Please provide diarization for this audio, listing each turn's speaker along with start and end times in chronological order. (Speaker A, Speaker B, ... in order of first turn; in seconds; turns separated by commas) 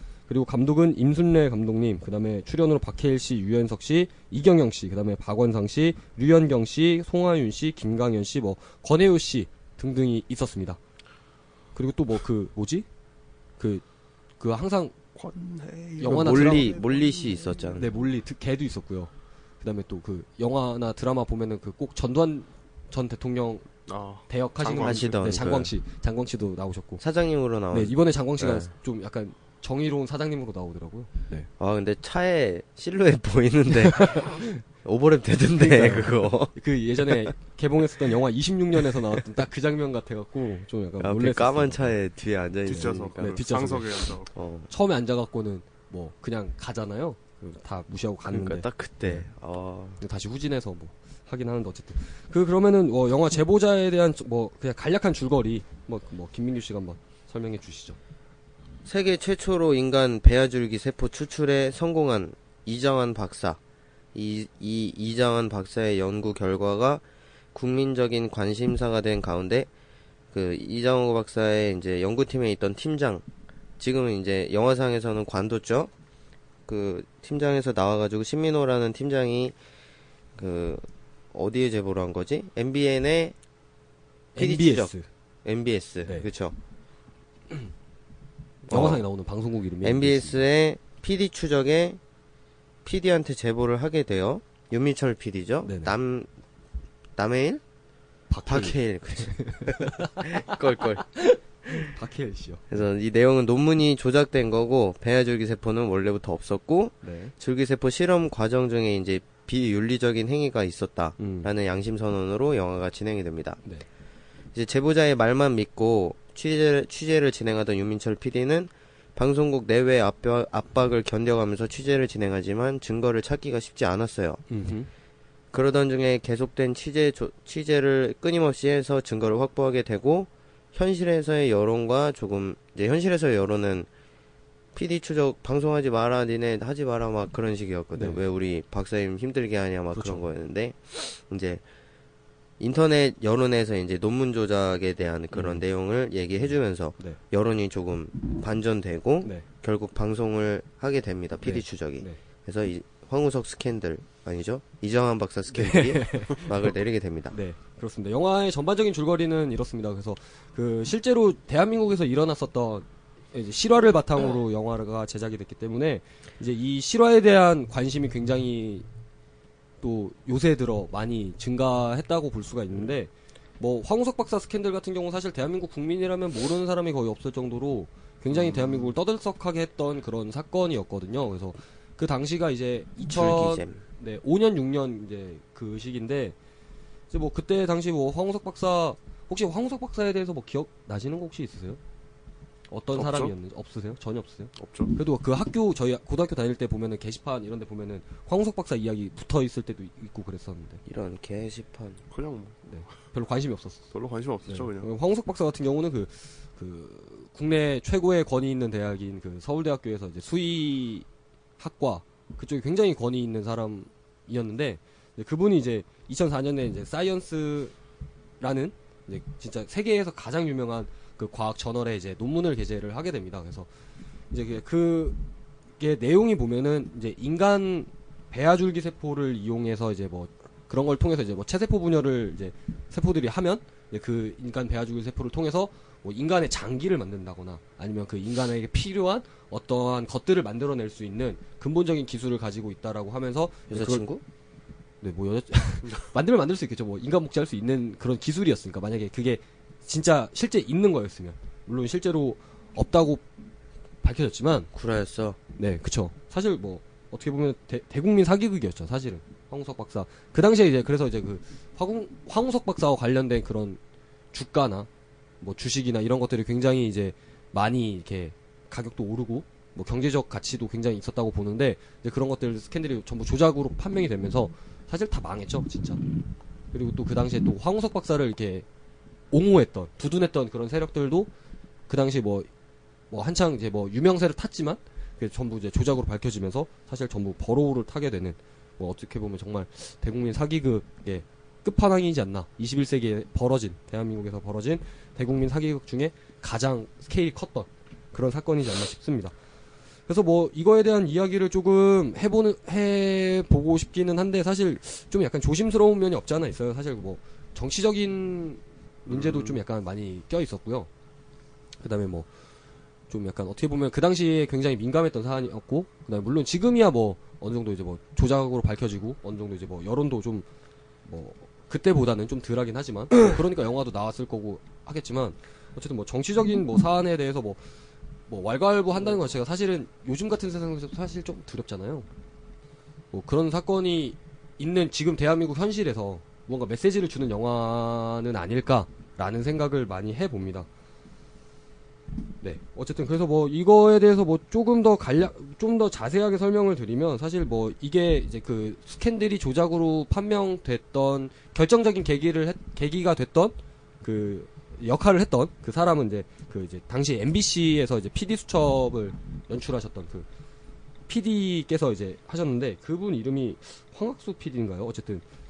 Speaker A: 0.3-10.8, Speaker A: 11.8-12.8, Speaker A: 13.6-13.8, Speaker A: 14.4-14.9, Speaker B: 15.1-17.8, Speaker A: 16.0-16.7, Speaker C: 16.0-18.0, Speaker A: 17.8-23.6, Speaker B: 23.9-25.5, Speaker A: 24.3-27.0, Speaker C: 24.8-25.7, Speaker C: 27.0-28.7, Speaker A: 27.7-31.5, Speaker C: 31.6-36.5, Speaker A: 33.9-34.5, Speaker A: 35.5-41.9, Speaker C: 37.0-37.3, Speaker C: 41.0-43.4, Speaker B: 42.6-44.3, Speaker A: 42.7-44.1, Speaker C: 44.3-44.7, Speaker A: 44.7-49.3, Speaker C: 48.2-50.0, Speaker A: 50.0-58.0, Speaker C: 58.8-63.6, Speaker C: 64.1-67.0, Speaker C: 67.5-69.7, Speaker C: 70.3-73.2, Speaker C: 73.8-75.9, Speaker C: 76.7-79.5, Speaker C: 80.3-83.3, Speaker A: 84.3-85.0, Speaker C: 84.3-84.9, Speaker C: 85.4-86.5, Speaker A: 88.7-90.4, Speaker C: 88.7-89.0, Speaker C: 89.8-92.0, Speaker C: 92.8-96.3, Speaker A: 95.6-95.9, Speaker C: 97.2-97.6, Speaker A: 98.3-100.6, Speaker C: 98.5-101.0, Speaker A: 101.1-102.8, Speaker C: 102.7-113.6, Speaker A: 107.0-107.3, Speaker A: 111.2-111.5, Speaker C: 114.5-124.4, Speaker A: 124.5-124.9, Speaker C: 125.5-133.9, Speaker C: 134.7-141.6, Speaker A: 137.9-138.2, Speaker A: 139.9-140.2, Speaker C: 142.6-157.3, Speaker A: 145.3-145.6, Speaker A: 151.4-152.2, Speaker A: 155.5-156.7, Speaker A: 157.3-168.8, Speaker A: 169.8-186.3, Speaker C: 183.1-183.8, Speaker A: 187.1-191.8, Speaker A: 192.7-200.8, Speaker B: 192.9-193.3, Speaker B: 194.6-194.9, Speaker C: 200.8-202.0, Speaker B: 202.1-202.6, Speaker A: 202.7-203.8, Speaker B: 203.9-204.9, Speaker A: 204.5-211.1, Speaker A: 211.6-217.7, Speaker A: 218.4-223.7, Speaker A: 224.3-225.2, Speaker A: 225.8-244.1, Speaker C: 243.7-244.2, Speaker A: 245.0-253.2, Speaker A: 254.0-254.7, Speaker C: 254.7-255.4, Speaker A: 255.6-263.8, Speaker A: 264.3-264.9, Speaker A: 265.4-276.0, Speaker A: 276.7-278.6, Speaker A: 279.3-281.3, Speaker A: 281.9-282.5, Speaker A: 283.1-299.3, Speaker A: 300.1-310.9, Speaker B: 309.1-309.6, Speaker A: 311.8-312.3, Speaker A: 313.1-320.4, Speaker A: 321.1-327.6, Speaker A: 328.3-332.1, Speaker A: 333.1-340.7, Speaker A: 342.4-360.3, Speaker A: 361.1-365.2